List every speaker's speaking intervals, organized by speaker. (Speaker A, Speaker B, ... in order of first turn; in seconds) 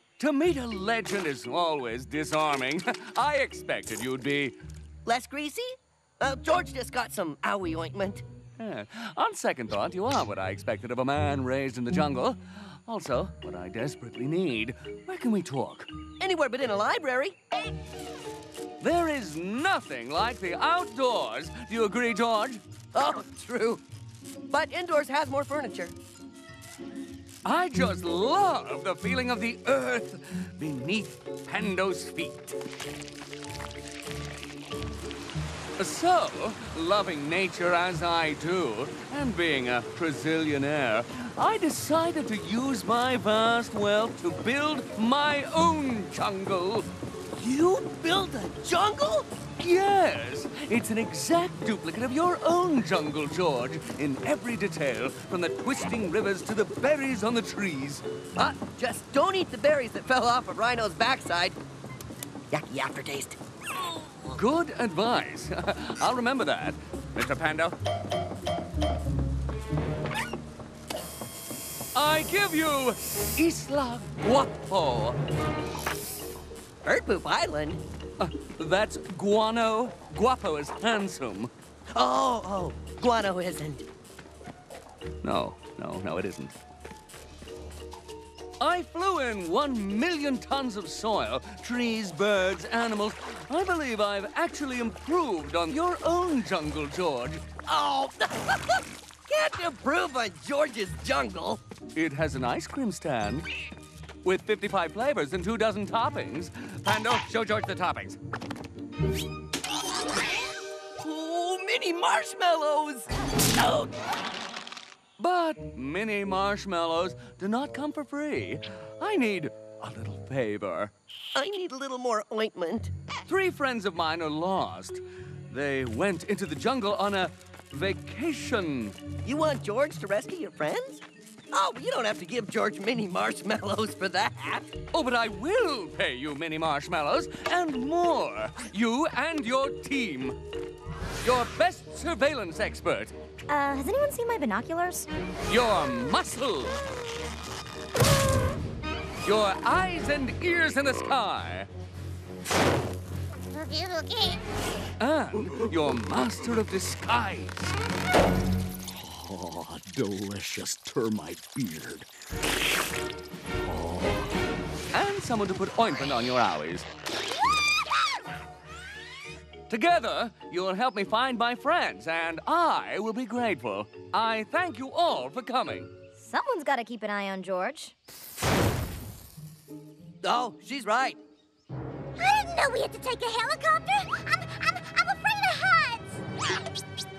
Speaker A: 0.2-4.6, 8.6-15.9, 18.8-22.6, 27.4-32.6, 35.8-46.9, 49.6-58.0, 64.3-67.8, 72.0-75.2, 78.2-81.5, 85.2-86.5, 88.6-97.5, 102.0-103.5, 104.2-108.2, 115.2-120.9, 123.3-129.0, 134.9-140.4, 141.2-143.1, 145.5-146.8, 149.2-151.7, 155.0-157.8, 164.9-166.9, 169.7-175.9
Speaker B: 5.1-8.2, 16.2-17.4, 22.9-23.8, 24.5-25.9, 47.3-49.4, 58.4-61.6, 62.5-63.4, 76.8-77.8, 81.9-83.8, 97.7-101.6, 111.0-114.0, 121.3-122.9, 129.2-134.7, 180.2-181.2
Speaker C: 143.5-145.1, 176.2-177.9
Speaker D: 153.6-154.4, 182.2-186.2
Speaker E: 158.9-162.1, 163.7-164.2